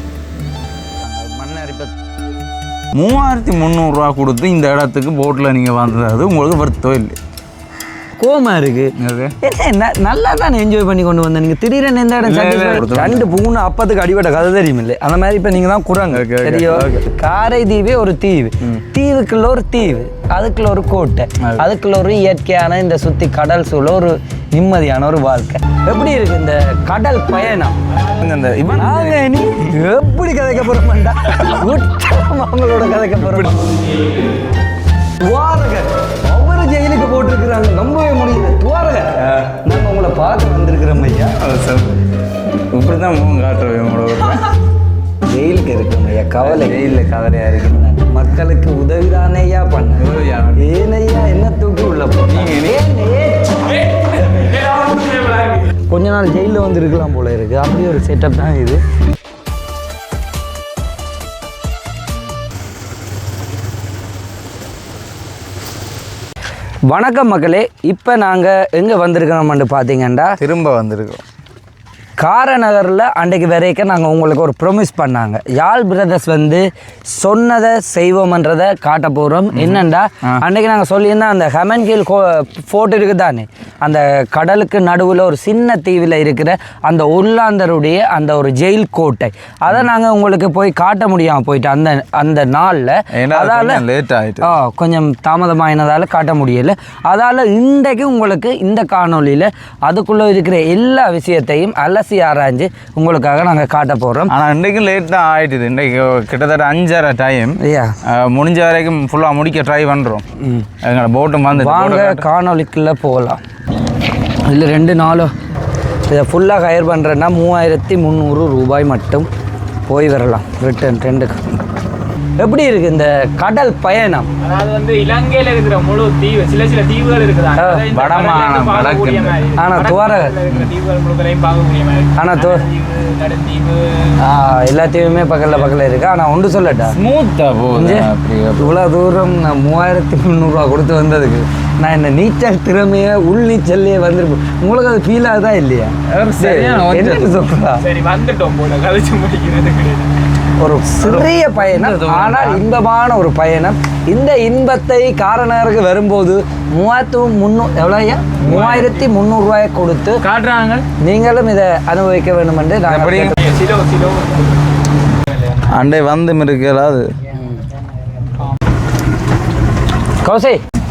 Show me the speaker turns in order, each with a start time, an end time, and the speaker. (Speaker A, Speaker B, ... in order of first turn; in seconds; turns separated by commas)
Speaker A: 1.0-1.9, Speaker A: 2.9-7.2, Speaker B: 8.2-27.8, Speaker A: 9.0-9.3, Speaker A: 12.2-13.3, Speaker A: 16.1-17.1, Speaker A: 28.2-29.8, Speaker B: 28.8-33.6, Speaker A: 33.2-33.6, Speaker B: 35.2-41.4, Speaker A: 39.2-39.5, Speaker A: 41.4-44.5, Speaker B: 45.3-47.0, Speaker A: 46.4-47.9, Speaker B: 47.7-53.9, Speaker A: 50.0-50.7, Speaker A: 52.3-52.8, Speaker C: 54.3-55.6, Speaker B: 55.9-58.8, Speaker B: 66.9-70.4, Speaker A: 70.4-71.2, Speaker B: 72.2-93.8, Speaker A: 79.5-80.4, Speaker A: 93.1-94.5, Speaker B: 94.4-104.3, Speaker A: 104.3-110.2, Speaker B: 107.6-108.0, Speaker B: 110.4-110.7, Speaker A: 110.8-112.2, Speaker B: 111.5-113.4, Speaker B: 114.4-115.3, Speaker B: 116.1-119.3, Speaker B: 119.9-121.4, Speaker B: 122.4-124.3, Speaker C: 124.4-134.2, Speaker B: 127.6-127.8, Speaker A: 127.9-129.4, Speaker B: 129.6-130.4, Speaker B: 132.2-132.7, Speaker B: 134.2-137.0, Speaker A: 136.9-138.8, Speaker B: 137.7-147.9, Speaker A: 146.1-147.5, Speaker C: 147.8-150.2, Speaker B: 150.6-160.2, Speaker A: 151.0-152.7, Speaker C: 158.4-159.0, Speaker C: 160.2-160.9, Speaker B: 161.0-163.4, Speaker A: 162.9-163.4, Speaker C: 163.4-164.6, Speaker A: 165.6-167.1, Speaker B: 170.2-170.6